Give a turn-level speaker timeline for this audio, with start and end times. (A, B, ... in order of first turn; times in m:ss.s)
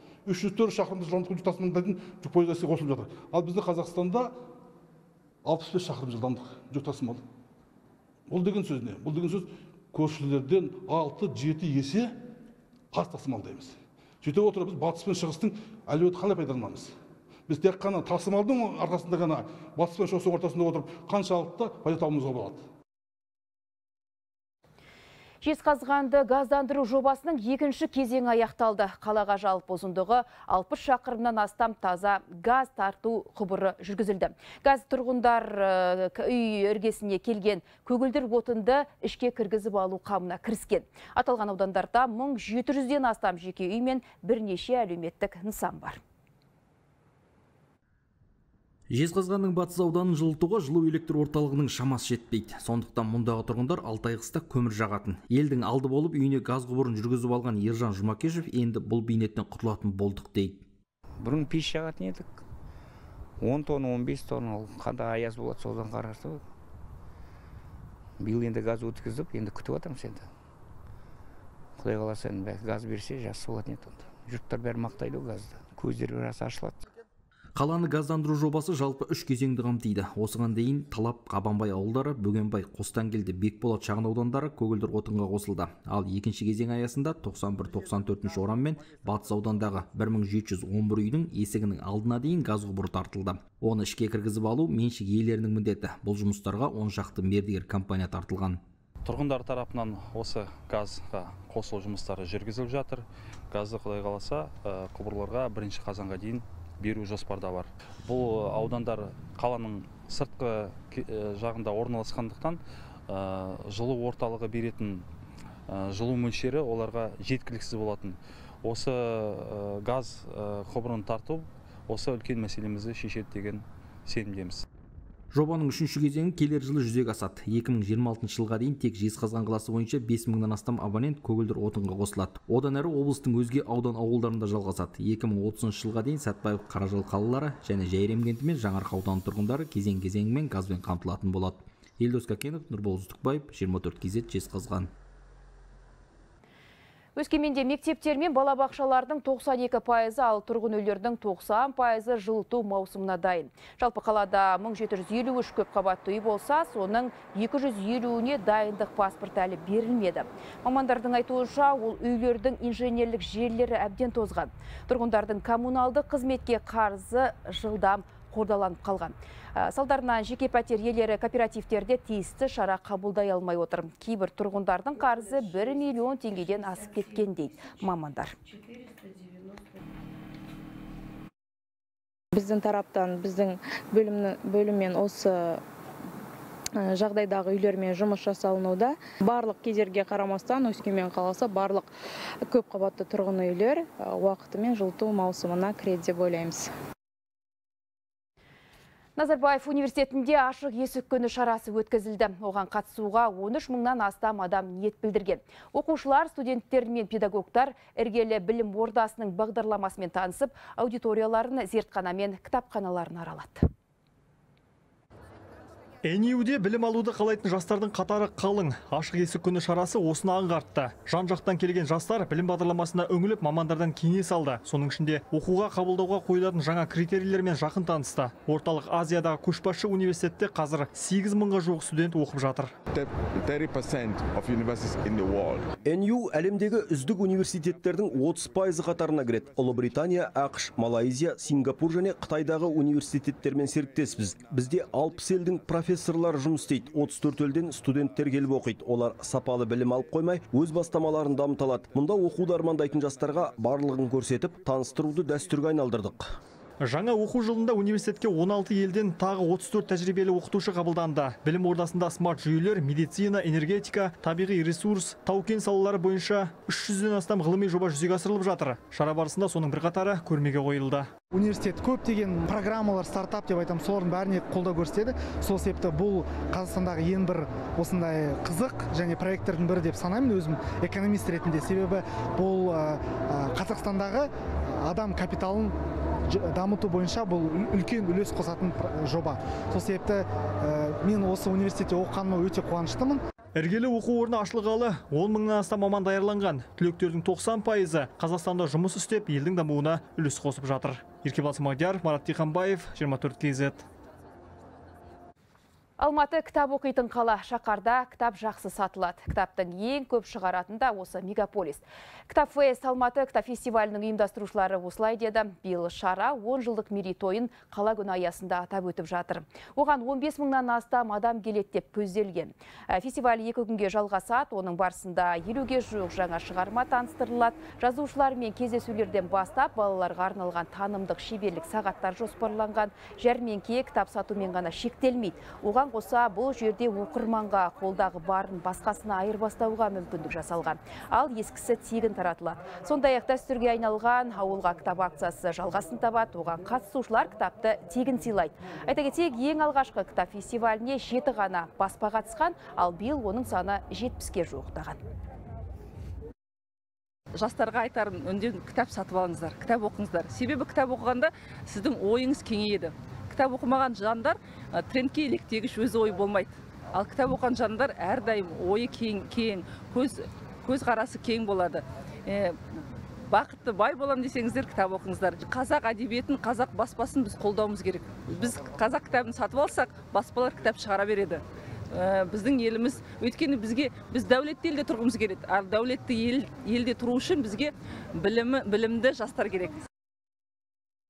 0:00.2-0:04.3 A
0:05.4-0:07.2 A
0:08.3-0:12.1 A
0:12.9-0:16.9 A
0:17.5-0:22.6 A
0:25.4-0:46.0 B
0:48.9-1:00.6 C
1:01.2-1:02.4 D
1:03.4-1:06.4 D
1:08.2-1:10.3 D
1:11.8-1:16.8 D
1:17.6-1:38.6 C
1:39.0-1:55.1 E
1:55.7-2:04.6 E
2:05.3-2:24.9 C
2:27.2-2:58.4 B
3:02.3-3:05.6 F
3:06.8-3:11.9 F
3:12.4-3:16.7 F
3:19.2-3:33.7 B
3:36.0-3:52.7 G
3:53.0-3:55.6 H
3:55.8-4:16.3 I
4:16.8-4:31.1 G
4:31.3-4:45.7 J
4:46.3-4:53.2 J
4:53.6-5:03.8 G
5:06.0-5:55.0 B
5:57.3-6:12.6 K
6:13.3-6:29.8 K